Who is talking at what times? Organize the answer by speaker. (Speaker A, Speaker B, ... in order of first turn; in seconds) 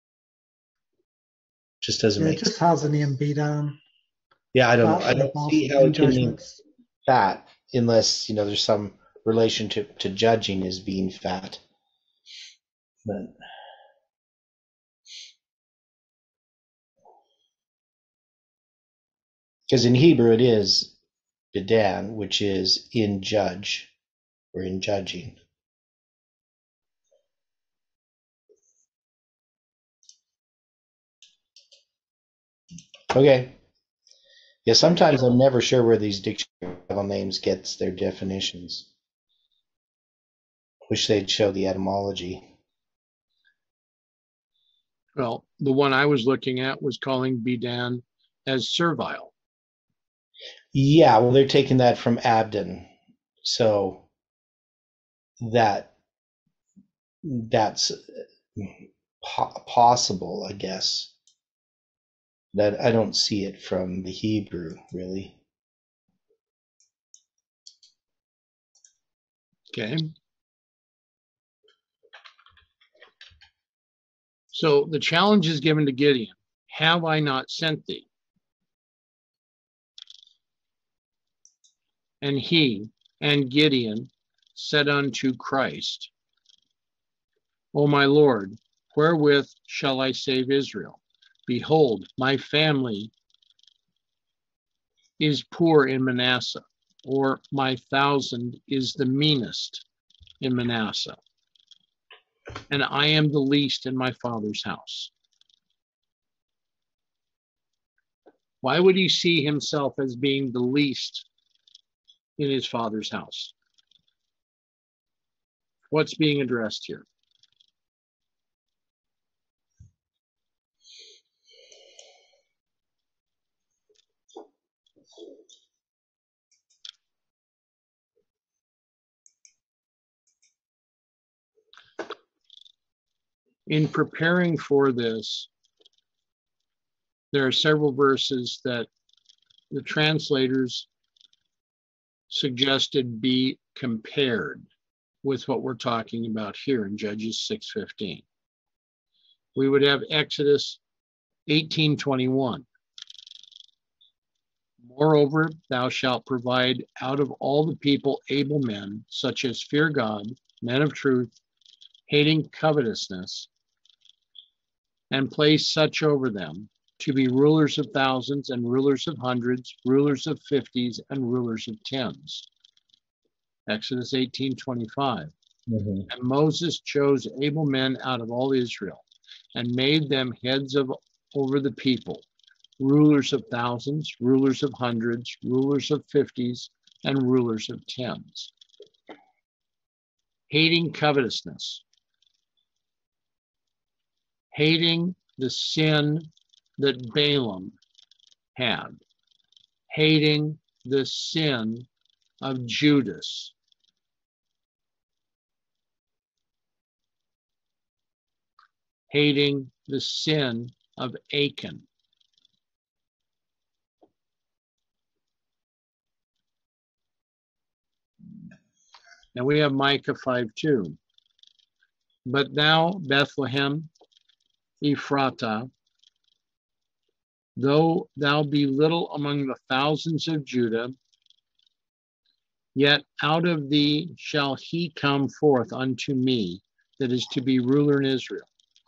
Speaker A: 1.8-2.5, 4.5-6.4, 7.0-11.6, 13.0-13.3, 19.7-20.9, 21.5-23.9, 24.5-25.4, 33.1-33.6, 34.6-38.9, 40.9-42.5, 50.7-52.9, 53.4-54.0, 55.4-55.9, 57.2-61.1, 62.5-65.4, 175.7-176.1
Speaker B: 2.2-3.8, 4.8-6.6
Speaker C: 45.1-49.3, 69.7-70.1, 74.5-78.1, 82.2-86.1, 87.7-93.1, 95.2-99.8, 100.4-101.2, 102.7-105.1, 108.6-111.2, 112.4-113.5, 115.9-117.0, 133.7-135.5, 137.3-138.9, 139.7-140.9, 142.3-144.7, 145.2-148.2, 149.6-150.8, 151.5-152.7, 154.8-161.3, 162.1-163.5, 165.1-172.4, 173.7-175.3, 176.1-182.2, 182.8-188.5, 190.5-191.8, 194.5-197.8, 198.6-199.0, 199.9-201.9, 202.4-203.5, 209.1-211.8, 219.3-221.0, 222.2-223.9, 224.8-225.7, 227.6-230.9, 232.7-238.5